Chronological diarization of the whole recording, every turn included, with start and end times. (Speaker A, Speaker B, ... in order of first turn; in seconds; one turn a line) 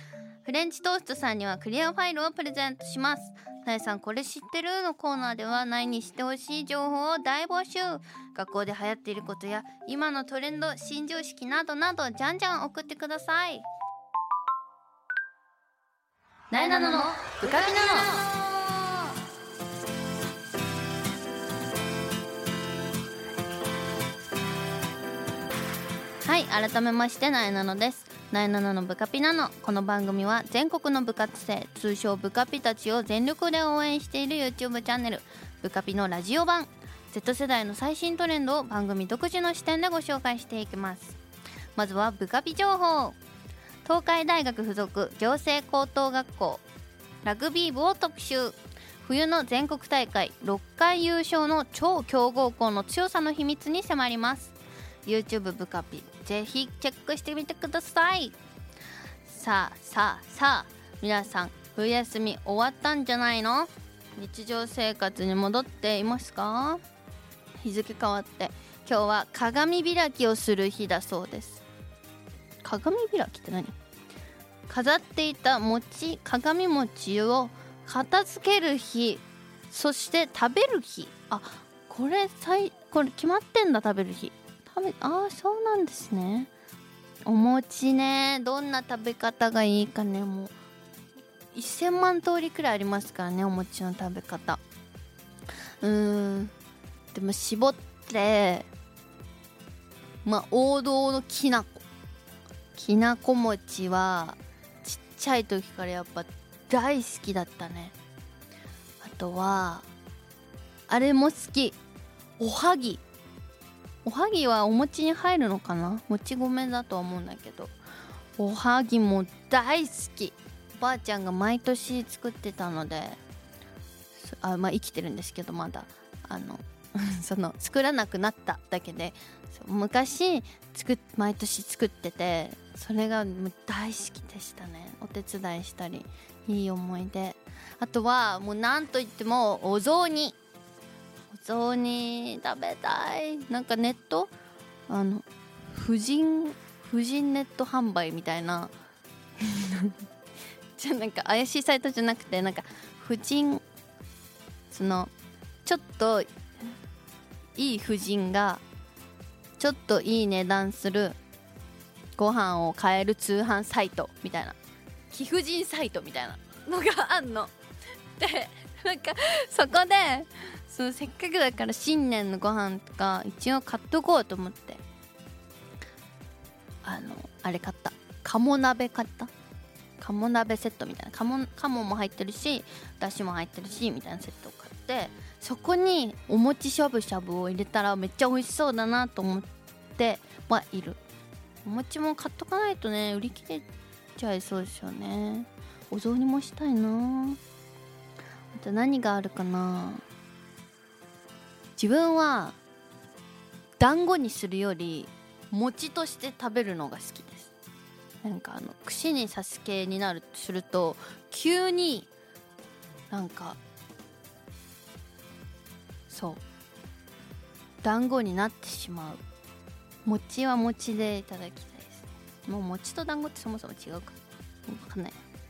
Speaker A: 0.5-13.6
Speaker A: 16.5-18.5
Speaker A: 26.2-41.2
Speaker A: 41.8-43.2
Speaker A: 43.8-46.6
Speaker A: 47.2-54.5
Speaker A: 55.0-58.4
Speaker A: 59.2-66.8
Speaker A: 67.6-71.6
Speaker A: 72.6-73.7
Speaker A: 74.7-86.5
Speaker A: 87.2-90.5
Speaker A: 91.5-94.6
Speaker A: 95.8-96.5
Speaker A: 97.1-98.7
Speaker A: 100.2-101.8
Speaker A: 102.8-107.9
Speaker A: 109.0-109.9
Speaker A: 110.9-111.8
Speaker A: 112.4-113.0
Speaker A: 114.0-117.7
Speaker A: 118.4-123.2
Speaker A: 124.2-140.3
Speaker A: 141.3-144.3
Speaker A: 144.9-148.7
Speaker A: 149.4-149.9
Speaker A: 150.8-153.6
Speaker A: 154.7-155.1
Speaker A: 155.6-156.3
Speaker A: 157.6-158.6
Speaker A: 159.6-161.2
Speaker A: 162.2-164.6
Speaker A: 165.1-167.5
Speaker A: 168.2-174.8
Speaker A: 176.8-179.3
Speaker A: 180.0-191.0
Speaker A: 191.6-197.4
Speaker A: 198.5-200.0
Speaker A: 201.8-202.6
Speaker A: 203.8-207.5
Speaker A: 208.2-212.1
Speaker A: 213.1-213.6
Speaker A: 216.1-216.4
Speaker A: 217.8-219.2
Speaker A: 220.0-225.2